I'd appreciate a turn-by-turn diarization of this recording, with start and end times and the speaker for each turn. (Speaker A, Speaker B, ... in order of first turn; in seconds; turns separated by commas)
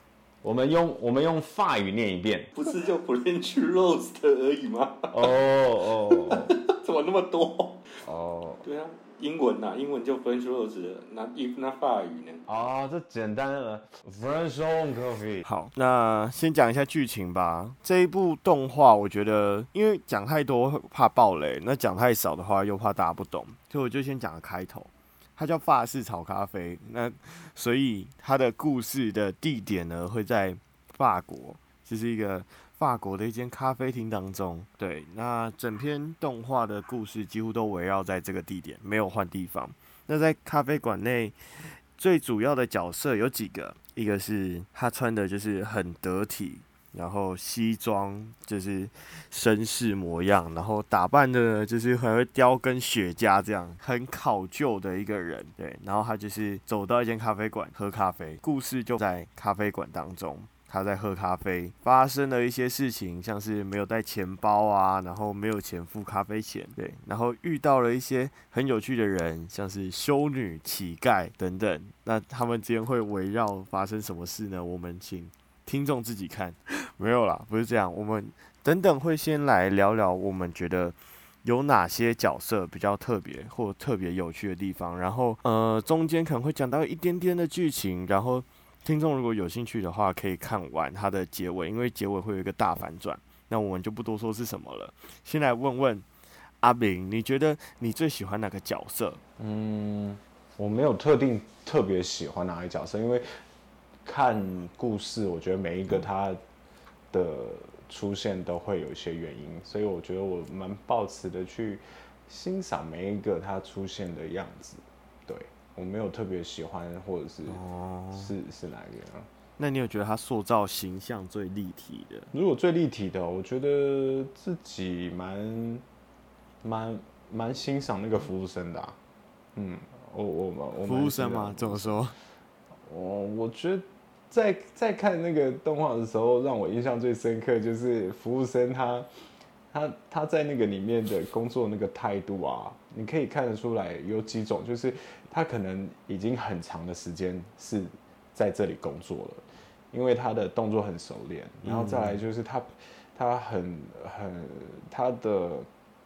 Speaker A: 0.4-2.5, Speaker B: 2.5-5.4, Speaker A: 5.1-6.5, Speaker B: 6.1-8.0, Speaker A: 8.0-8.6, Speaker B: 8.6-12.5, Speaker A: 12.5-15.4, Speaker C: 15.4-96.1, Speaker C: 96.6-99.2, Speaker A: 99.4-103.4, Speaker A: 104.0-106.4, Speaker A: 107.1-117.6, Speaker C: 117.5-118.3, Speaker A: 118.1-119.3, Speaker C: 119.6-122.3, Speaker A: 122.3-125.8, Speaker A: 126.6-129.0, Speaker A: 129.6-132.0, Speaker C: 130.8-132.2, Speaker A: 132.8-139.1, Speaker A: 139.7-155.7, Speaker C: 151.6-152.2